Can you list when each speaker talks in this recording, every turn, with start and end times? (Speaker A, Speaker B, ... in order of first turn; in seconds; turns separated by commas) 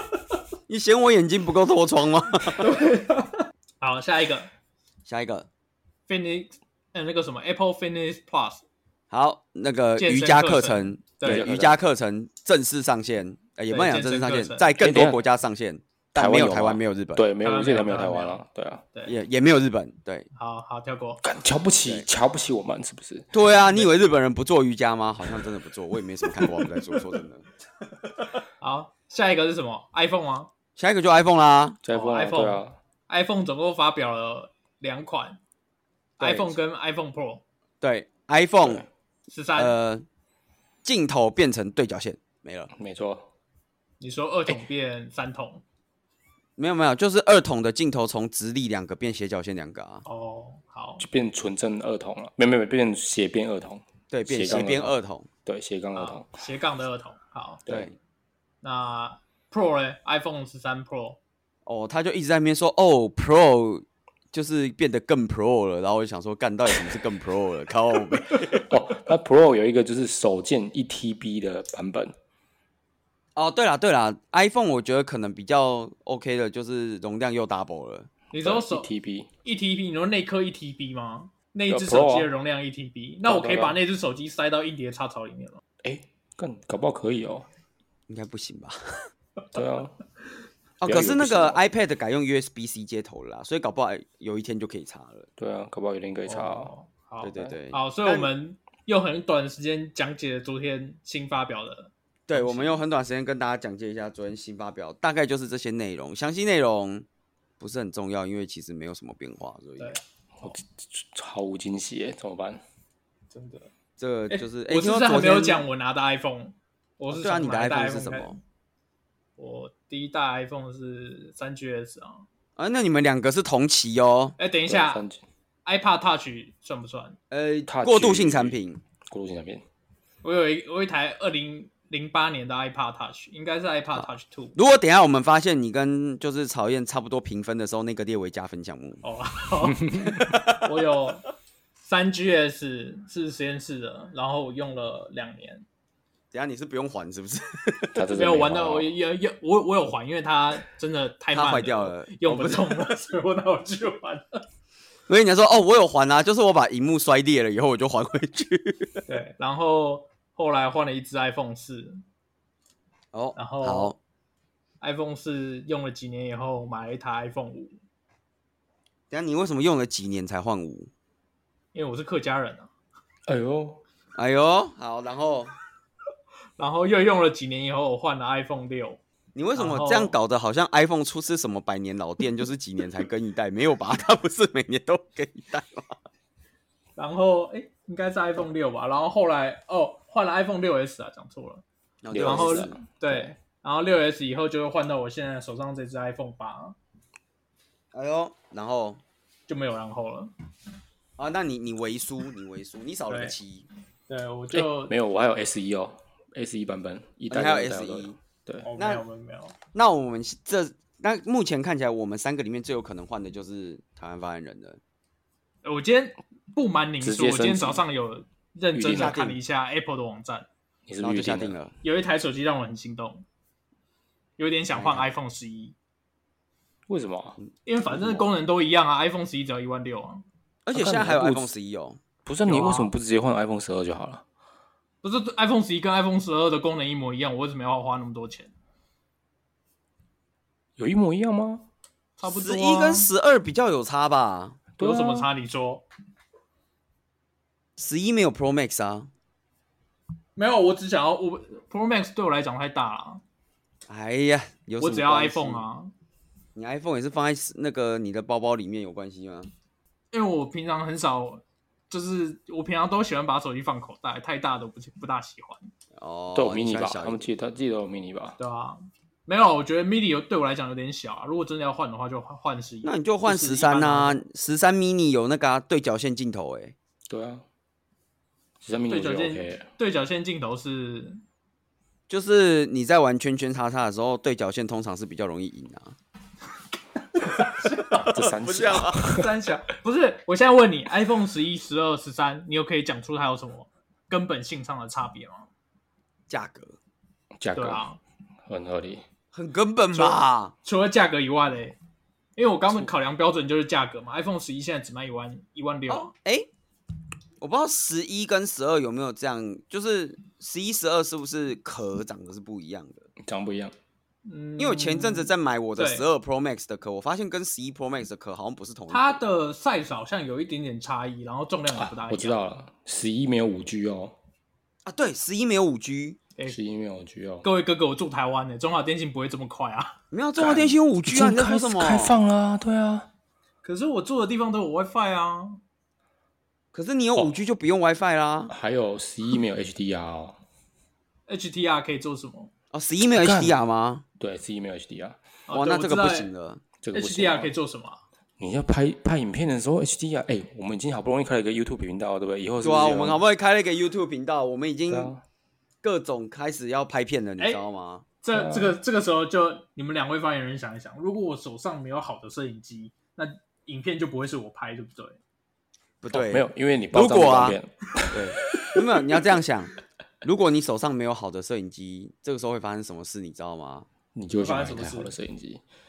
Speaker A: 0.7-2.8, Speaker B: 2.6-4.5, Speaker A: 5.1-5.5, Speaker B: 6.1-8.6, Speaker A: 9.1-17.3, Speaker B: 10.0-11.5, Speaker C: 11.2-11.8, Speaker B: 13.7-14.7, Speaker C: 14.8-15.2, Speaker C: 16.1-18.8, Speaker B: 17.4-18.4, Speaker A: 19.1-20.3, Speaker B: 20.3-21.2, Speaker C: 21.2-23.3, Speaker A: 23.3-27.5, Speaker B: 28.2-30.5, Speaker A: 30.8-31.8, Speaker C: 31.8-32.8, Speaker B: 31.9-35.4, Speaker A: 36.2-36.6, Speaker B: 36.2-37.4, Speaker A: 37.8-38.8, Speaker B: 39.3-39.8, Speaker A: 39.6-40.1, Speaker A: 40.8-42.7, Speaker C: 42.7-43.3, Speaker B: 44.0-45.6, Speaker A: 46.6-50.0, Speaker B: 50.1-51.1, Speaker C: 51.0-56.4, Speaker A: 54.1-55.3, Speaker B: 55.9-57.6, Speaker A: 57.7-58.0, Speaker B: 58.6-61.2, Speaker A: 61.7-68.7, Speaker C: 68.3-72.1, Speaker A: 73.4-78.1, Speaker B: 78.3-78.9, Speaker C: 78.4-79.3, Speaker B: 79.4-85.6, Speaker C: 81.7-82.3, Speaker C: 83.2-83.8, Speaker C: 85.8-87.5, Speaker A: 88.1-89.1, Speaker C: 89.5-90.0, Speaker A: 90.8-95.3, Speaker C: 90.8-91.6, Speaker C: 95.4-96.7, Speaker B: 96.3-102.8, Speaker A: 97.2-98.3, Speaker A: 102.3-107.1, Speaker A: 107.6-110.0, Speaker C: 110.4-112.6, Speaker B: 113.3-113.7, Speaker A: 114.0-115.7, Speaker B: 114.3-118.4, Speaker A: 117.1-118.4, Speaker B: 119.4-122.3, Speaker A: 122.6-124.4, Speaker B: 124.4-125.0, Speaker C: 124.7-125.2, Speaker B: 125.7-127.2, Speaker A: 127.3-128.8, Speaker C: 127.7-129.6, Speaker B: 130.2-134.6, Speaker A: 134.0-139.0, Speaker B: 139.0-141.3, Speaker C: 139.7-140.2, Speaker A: 140.1-140.7, Speaker B: 141.8-145.7, Speaker A: 146.3-147.9, Speaker C: 147.9-148.9, Speaker B: 148.1-154.4, Speaker A: 151.3-152.9, Speaker A: 155.1-159.0, Speaker B: 159.1-162.0, Speaker A: 163.1-164.0, Speaker B: 163.4-163.9, Speaker B: 164.8-167.8, Speaker A: 169.1-170.9, Speaker B: 171.7-172.7, Speaker C: 173.3-173.8, Speaker A: 174.2-175.5, Speaker B: 176.6-179.0, Speaker A: 179.3-186.0, Speaker B: 179.6-180.2, Speaker B: 187.0-191.6, Speaker A: 192.0-192.8, Speaker C: 192.1-193.3, Speaker B: 192.2-196.8, Speaker A: 197.9-199.0, Speaker B: 199.5-200.3, Speaker A: 201.2-203.7, Speaker B: 203.1-203.3, Speaker B: 204.1-204.9, Speaker C: 204.5-208.7, Speaker A: 207.3-208.2, Speaker B: 208.7-209.6, Speaker A: 208.8-209.0, Speaker A: 209.7-214.8, Speaker B: 215.6-220.5, Speaker C: 217.0-217.8, Speaker C: 218.7-219.2, Speaker A: 218.9-219.4, Speaker C: 220.9-221.6, Speaker A: 221.0-221.8, Speaker B: 221.8-223.2, Speaker B: 224.4-225.8, Speaker A: 224.7-225.1, Speaker C: 226.9-227.4, Speaker A: 227.4-228.3, Speaker B: 227.7-230.2, Speaker A: 230.7-232.0, Speaker C: 230.7-231.5, Speaker C: 232.2-234.2, Speaker B: 232.4-232.9, Speaker B: 235.0-238.5, Speaker C: 240.8-241.7, Speaker B: 242.2-243.1, Speaker A: 242.2-244.6, Speaker C: 244.8-245.3, Speaker B: 244.8-245.8, Speaker A: 247.8-249.1, Speaker B: 250.4-253.2, Speaker A: 253.9-255.7, Speaker B: 254.8-255.9, Speaker A: 256.6-259.5, Speaker B: 260.1-265.7, Speaker A: 266.0-267.3, Speaker C: 266.3-268.4, Speaker B: 268.4-274.2, Speaker A: 272.8-276.8, Speaker C: 277.1-277.4, Speaker C: 278.6-279.7, Speaker B: 278.9-281.2, Speaker A: 282.1-285.9, Speaker B: 287.2-288.1, Speaker A: 288.0-289.0, Speaker C: 288.1-289.3, Speaker B: 289.0-295.5, Speaker A: 296.3-296.8, Speaker C: 297.4-297.9, Speaker B: 297.6-298.0, Speaker C: 298.5-299.1, Speaker A: 299.3-300.5, Speaker B: 299.9-301.8, Speaker B: 302.4-306.1, Speaker A: 305.9-306.5, Speaker A: 307.4-313.1, Speaker C: 313.2-313.7, Speaker B: 314.2-316.1, Speaker A: 314.6-319.2, Speaker B: 318.9-322.4, Speaker C: 321.8-324.2, Speaker A: 324.9-326.2, Speaker C: 326.5-327.4, Speaker B: 327.4-330.0, Speaker A: 330.1-332.2, Speaker C: 330.4-333.1, Speaker B: 333.6-335.6, Speaker A: 336.7-338.5, Speaker C: 338.5-340.4, Speaker B: 341.3-342.5, Speaker A: 342.7-344.0, Speaker C: 343.2-343.6, Speaker C: 344.2-345.2, Speaker B: 345.5-346.3, Speaker A: 345.5-346.6, Speaker C: 346.8-347.5, Speaker B: 346.9-348.0, Speaker C: 348.4-353.2, Speaker A: 352.6-355.1, Speaker C: 354.9-355.2, Speaker A: 355.8-358.1, Speaker B: 358.2-365.2, Speaker C: 358.3-358.8, Speaker A: 366.0-367.6, Speaker C: 366.1-368.3, Speaker A: 368.1-373.9, Speaker C: 374.1-375.6, Speaker B: 374.4-375.1